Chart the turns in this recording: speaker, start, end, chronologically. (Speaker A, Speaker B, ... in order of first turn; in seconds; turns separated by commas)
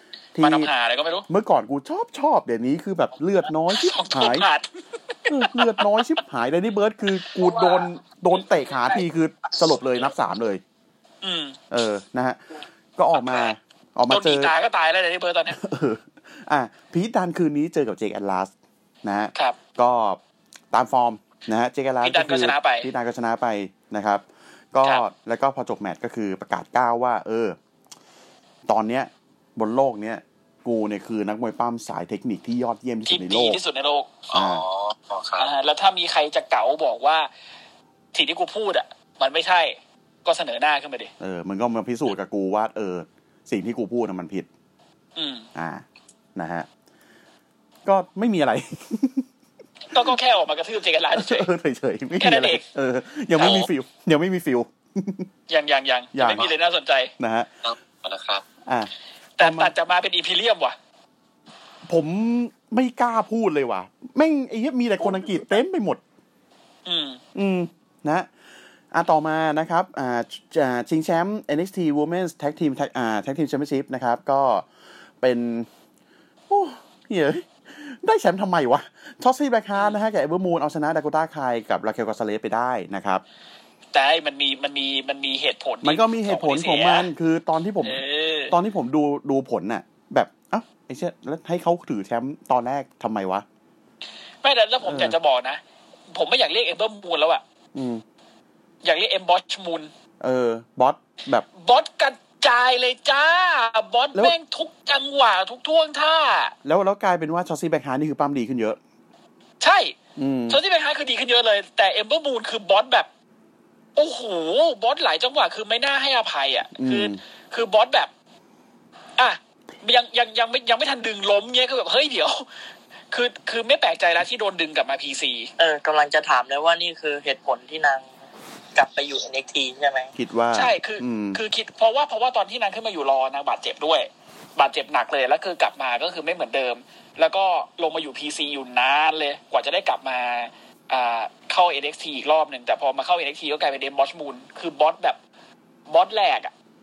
Speaker A: 0.3-0.7, Speaker B: 0.4-1.3, Speaker A: 1.3-4.5, Speaker B: 3.7-6.0, Speaker A: 5.3-10.6, Speaker B: 7.3-7.8, Speaker B: 11.2-11.6, Speaker A: 11.7-12.4, Speaker A: 13.0-14.5, Speaker B: 14.1-15.6, Speaker A: 15.5-18.5, Speaker A: 19.0-20.2, Speaker A: 20.7-27.6, Speaker B: 22.0-22.9, Speaker A: 28.7-33.6, Speaker B: 33.1-34.1, Speaker C: 34.3-35.5, Speaker A: 34.3-34.6, Speaker B: 35.4-37.3, Speaker B: 38.1-41.1, Speaker A: 41.2-44.5, Speaker B: 45.1-45.5, Speaker A: 45.5-45.8, Speaker A: 46.3-46.7, Speaker A: 47.8-49.3, Speaker B: 49.9-51.5, Speaker A: 51.1-55.3, Speaker B: 52.2-52.6, Speaker B: 53.4-53.7, Speaker B: 55.5-57.1, Speaker A: 56.1-56.5, Speaker A: 57.2-57.5, Speaker C: 57.6-58.4, Speaker A: 58.6-59.7, Speaker B: 59.4-60.8, Speaker A: 61.9-66.0, Speaker B: 66.8-67.2, Speaker A: 67.3-68.3, Speaker A: 68.9-74.7, Speaker A: 75.2-75.7, Speaker A: 76.5-83.2, Speaker B: 83.9-87.1, Speaker A: 85.8-93.4, Speaker B: 87.8-88.5, Speaker B: 94.4-97.4, Speaker A: 94.8-95.2, Speaker A: 97.7-98.0, Speaker B: 98.8-99.9, Speaker A: 100.2-101.4, Speaker B: 101.5-106.5, Speaker A: 106.6-108.8, Speaker B: 109.6-109.9, Speaker A: 110.2-110.6, Speaker B: 110.5-113.1, Speaker B: 114.0-118.1, Speaker A: 116.8-117.2, Speaker B: 119.2-122.5, Speaker B: 123.1-125.5, Speaker D: 125.6-128.1, Speaker D: 128.7-130.1, Speaker A: 130.2-131.4, Speaker B: 130.5-145.2, Speaker B: 145.9-146.5